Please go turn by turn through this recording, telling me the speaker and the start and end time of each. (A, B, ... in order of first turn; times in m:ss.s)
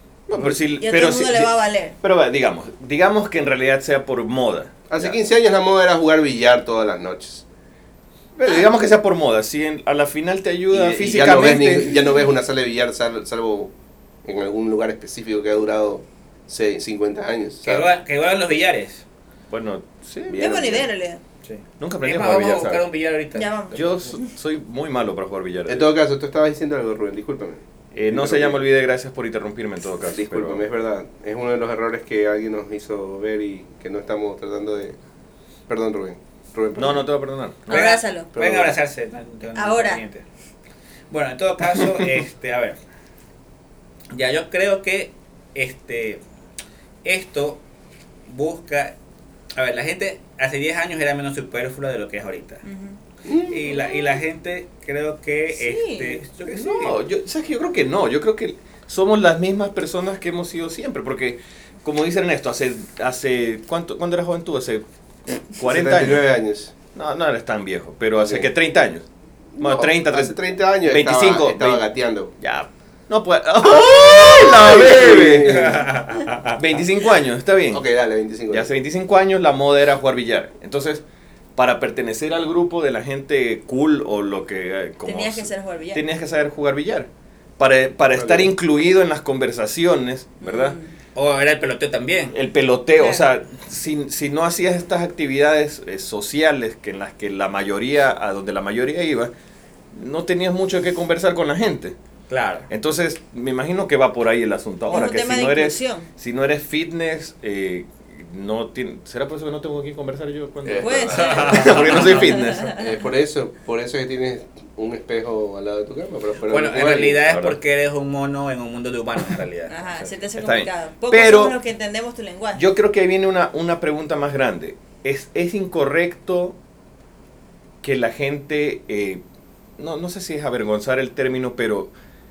0:00.3-0:05.2 A
0:00.8-0:02.0 B
0:04.9-0:07.4 C
0:08.4-0:12.0 A
0:10.7-0:13.7 C
0:14.2-0:17.9 C
0:17.6-0:19.0 D
0:19.5-0:20.5 A
0:20.3-0:20.9 C
0:20.4-0:21.2 B
0:21.4-0:24.1 D
0:21.8-0:22.8 A
0:23.3-0:24.2 B
0:23.7-0:25.9 A
0:25.7-0:28.6 C
0:27.9-0:30.6 A
0:30.0-0:35.0 C
0:35.7-0:37.0 C
0:36.8-0:37.9 A
0:37.7-0:40.3 D
0:37.7-0:38.3 B
0:38.3-0:38.8 C
0:39.6-0:40.0 B
0:41.1-0:42.8 D
0:44.1-0:46.2 D
0:47.0-0:47.6 D
0:48.3-0:49.0 D
0:49.5-0:52.6 D
0:52.6-0:53.0 B
0:53.2-0:53.6 C
0:53.5-0:57.0 D
0:53.6-0:54.2 B
0:55.5-0:56.2 B
0:56.5-1:04.8 A
1:05.5-1:06.2 A
1:05.6-1:06.7 C
1:06.9-1:09.0 A
1:08.2-1:08.5 C
1:09.6-1:12.3 C
1:09.6-1:11.8 A
1:12.4-1:15.8 A
1:13.6-1:15.8 C
1:15.5-1:16.6 D
1:16.6-1:17.8 A
1:17.7-1:18.7 C
1:18.5-1:21.0 A
1:21.6-1:30.8 A
1:25.0-1:26.0 B
1:28.2-1:28.5 C
1:30.4-1:30.9 B
1:31.2-1:32.4 D
1:32.3-1:39.3 A
1:33.0-1:33.3 B
1:39.9-1:41.9 A
1:42.3-1:42.7 D
1:42.7-1:52.7 A
1:44.9-1:46.1 B
1:50.6-1:51.6 C
1:50.8-1:52.8 B
1:51.1-1:52.6 D
1:52.7-1:57.2 C
1:56.5-2:00.1 D
1:57.2-1:57.6 A
1:59.7-2:02.6 B
2:00.4-2:01.6 A
2:02.6-2:06.6 A
2:07.8-2:09.2 A
2:09.8-2:11.9 A